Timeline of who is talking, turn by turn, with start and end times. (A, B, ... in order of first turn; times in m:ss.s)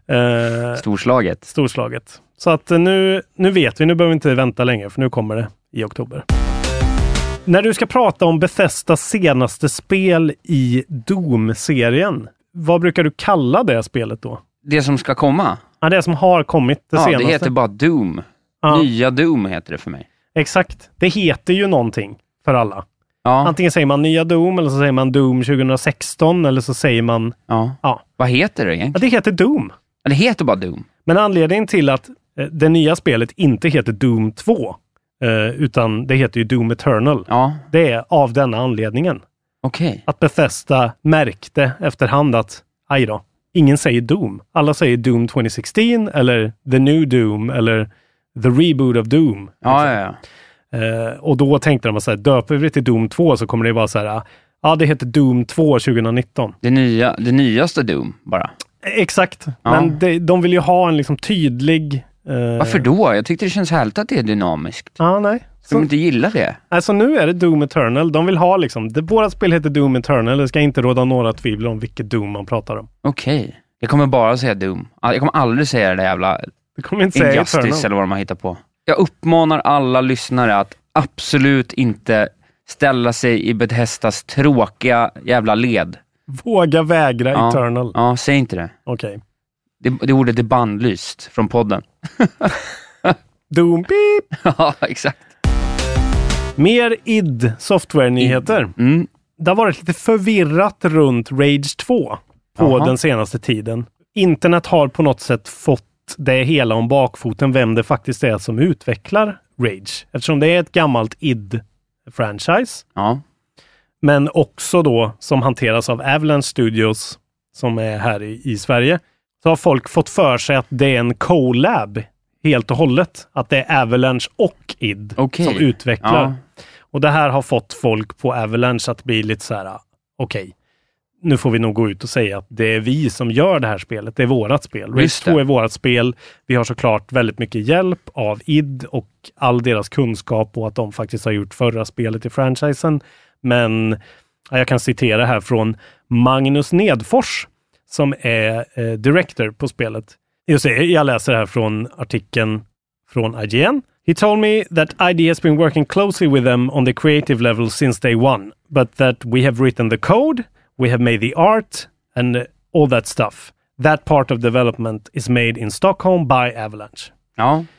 0:00.1-0:00.8 A
0:00.8-0:01.5 B
0:01.5-0:06.2 A
0:07.5-0:14.4 A
0:14.6-0:15.6 B
0:15.8-0:17.5 A
0:17.0-0:20.1 B
0:20.4-0:22.8 A
0:23.2-0:23.6 B
0:23.4-0:28.0 A
0:27.5-0:29.0 B
0:28.9-0:29.7 A
0:30.0-0:30.9 B
0:31.1-0:39.2 A
0:37.3-0:37.6 B
0:39.6-0:40.0 B
0:40.1-0:50.0 A
0:49.6-0:50.2 B
0:50.7-0:56.6 A
0:56.6-0:58.5 B
0:58.8-1:02.8 A
0:59.6-1:00.0 B
1:02.6-1:05.0 B
1:05.0-1:05.9 A
1:05.7-1:06.6 B
1:06.7-1:12.9 A
1:13.0-1:16.5 B
1:16.8-1:17.9 A
1:17.1-1:26.0 B
1:26.3-1:28.0 A
1:27.3-1:28.7 B
1:28.9-1:29.2 A
1:29.8-1:33.2 B
1:33.5-1:34.3 A
1:34.4-1:35.2 B
1:36.6-1:38.7 A
1:38.2-1:39.1 B
1:39.4-1:52.8 A
1:42.6-1:42.9 B
1:53.0-1:53.2 B
1:54.0-2:06.4 A
2:05.2-2:06.4 B
2:06.9-2:10.5 A
2:11.2-2:24.0 A
2:15.0-2:15.4 B
2:24.5-2:47.1 A
2:47.4-2:47.7 B